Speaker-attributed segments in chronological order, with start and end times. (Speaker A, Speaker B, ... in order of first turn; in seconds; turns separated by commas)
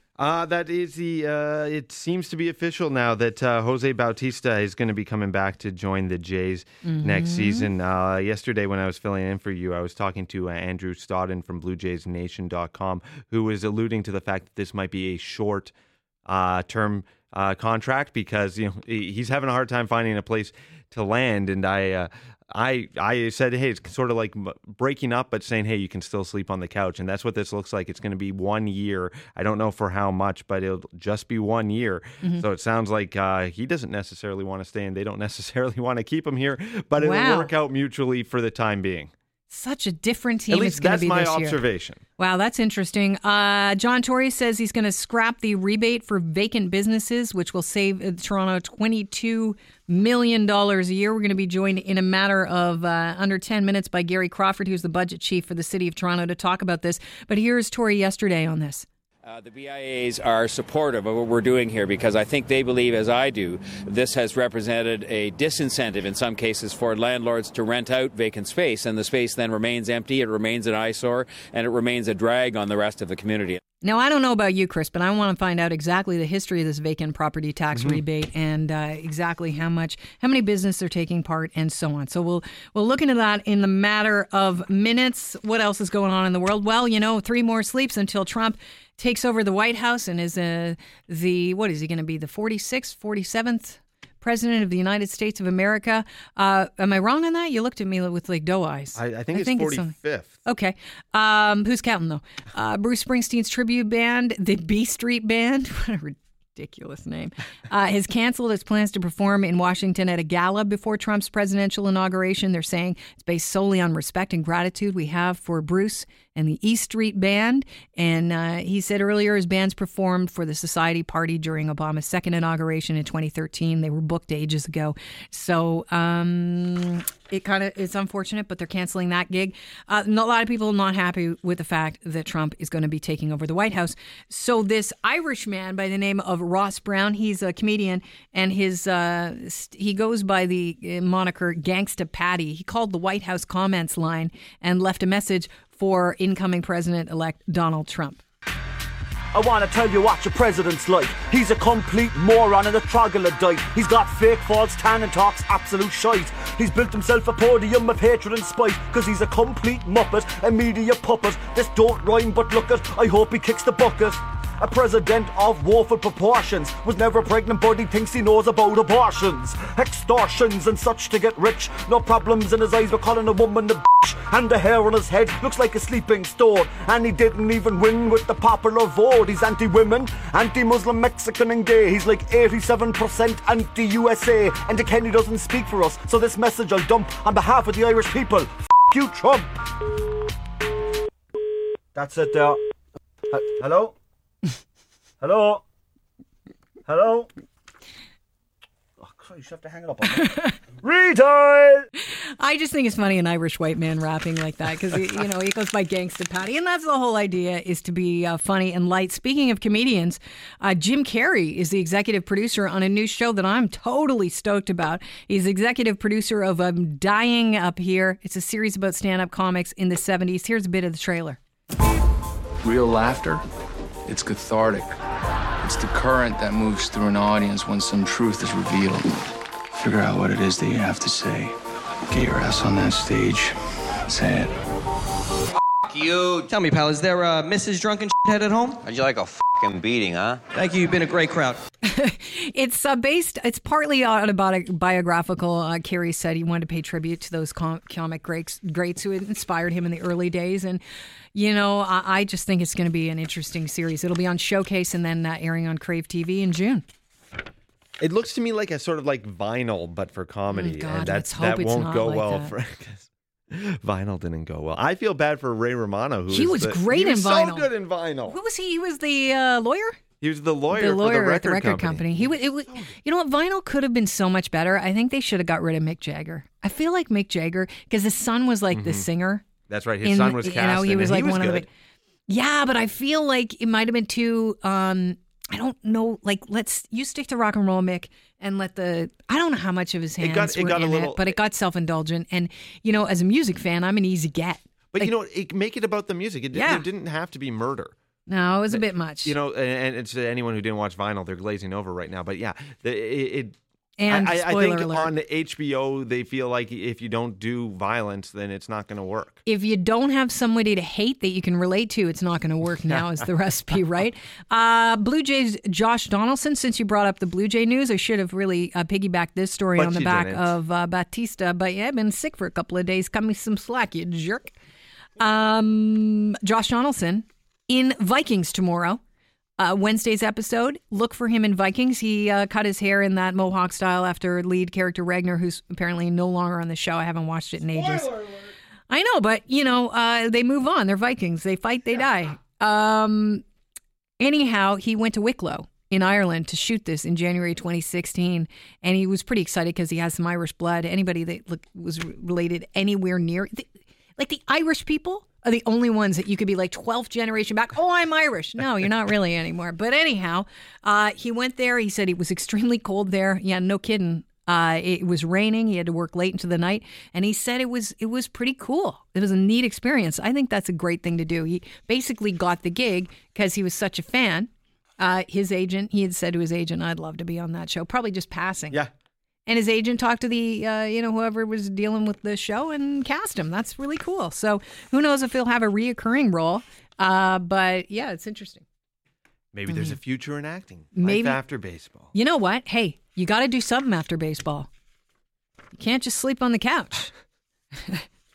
Speaker A: 0.2-15.7, Speaker B: 6.9-7.7, Speaker A: 16.3-39.1, Speaker B: 37.0-37.5, Speaker B: 39.5-41.6, Speaker A: 40.5-42.0, Speaker B: 42.2-58.9, Speaker C: 59.2-73.6, Speaker B: 73.8-99.9, Speaker A: 99.0-100.4, Speaker B: 100.5-148.2, Speaker D: 149.3-189.5, Speaker D: 191.9-192.6, Speaker D: 193.3-193.9, Speaker D: 195.2-195.6, Speaker D: 196.9-197.3, Speaker D: 199.0-200.3, Speaker B: 200.1-200.6, Speaker D: 200.8-201.9, Speaker B: 202.0-221.4, Speaker E: 222.6-223.4, Speaker E: 224.1-225.0, Speaker E: 225.6-229.2, Speaker E: 229.8-231.6, Speaker E: 232.1-233.6, Speaker E: 234.1-234.5, Speaker F: 235.9-236.5, Speaker G: 236.5-238.8, Speaker F: 238.8-240.4, Speaker G: 240.5-241.6, Speaker B: 241.8-250.8, Speaker B: 251.3-256.9, Speaker A: 258.0-268.4, Speaker B: 260.5-262.5, Speaker B: 266.3-267.7, Speaker B: 268.3-270.0, Speaker A: 270.2-272.3, Speaker B: 270.7-279.4, Speaker A: 278.7-279.1, Speaker A: 279.7-281.7, Speaker B: 280.0-281.7, Speaker B: 282.3-295.1, Speaker A: 290.2-291.4, Speaker A: 294.9-297.9, Speaker B: 296.5-296.9, Speaker B: 298.3-299.4, Speaker A: 298.7-303.6, Speaker B: 304.0-305.1, Speaker A: 304.1-309.4, Speaker B: 309.5-324.5, Speaker A: 319.8-320.5, Speaker B: 325.2-329.0, Speaker B: 329.6-343.4, Speaker B: 344.2-378.8, Speaker B: 379.5-388.6, Speaker A: 389.5-392.1, Speaker B: 390.9-391.4, Speaker B: 392.1-394.7, Speaker B: 395.8-397.1